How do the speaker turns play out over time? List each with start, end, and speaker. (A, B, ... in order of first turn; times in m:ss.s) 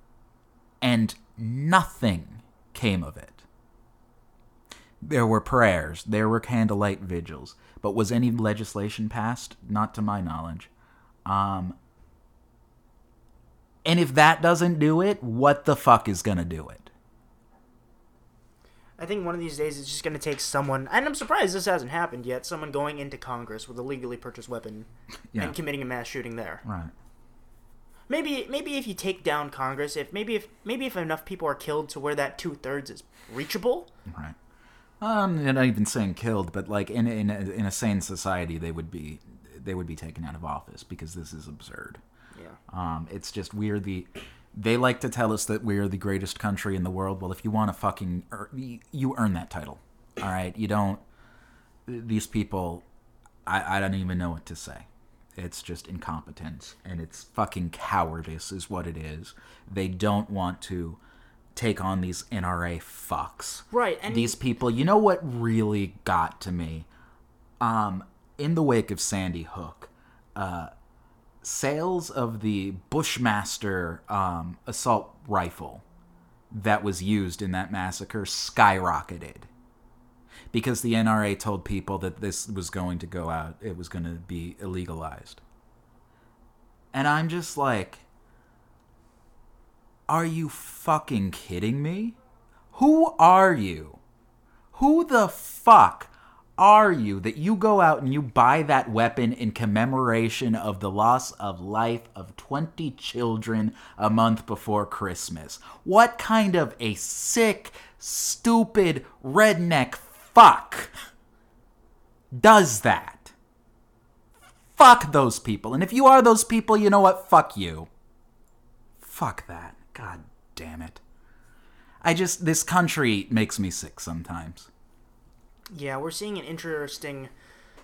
0:00.8-0:03.4 A
0:05.0-0:10.7 A
0:11.3-0:11.8 A
0:13.8-0:16.9 A
0:19.0-0:24.9 B
0:25.4-0:26.6 B
0:26.6-0:26.9 A
0:28.1-0:33.9 B
0:34.1-0:34.4 A
0:35.0-0:42.0 A
0:42.3-0:42.6 B
0:42.7-0:51.0 A
0:51.9-0:52.8 A
0:53.5-1:01.0 A
1:01.6-1:06.9 A
1:03.7-1:04.4 B
1:07.6-1:10.7 A
1:11.4-1:15.8 A
1:16.5-1:19.5 A
1:20.5-1:25.4 A
1:26.9-1:28.0 A
1:30.1-1:32.2 A
1:32.7-1:34.0 A
1:34.7-1:50.9 A
1:52.3-1:53.3 A
1:54.8-1:57.9 A
1:59.0-2:01.0 A
2:02.0-2:04.7 A
2:05.7-2:07.3 B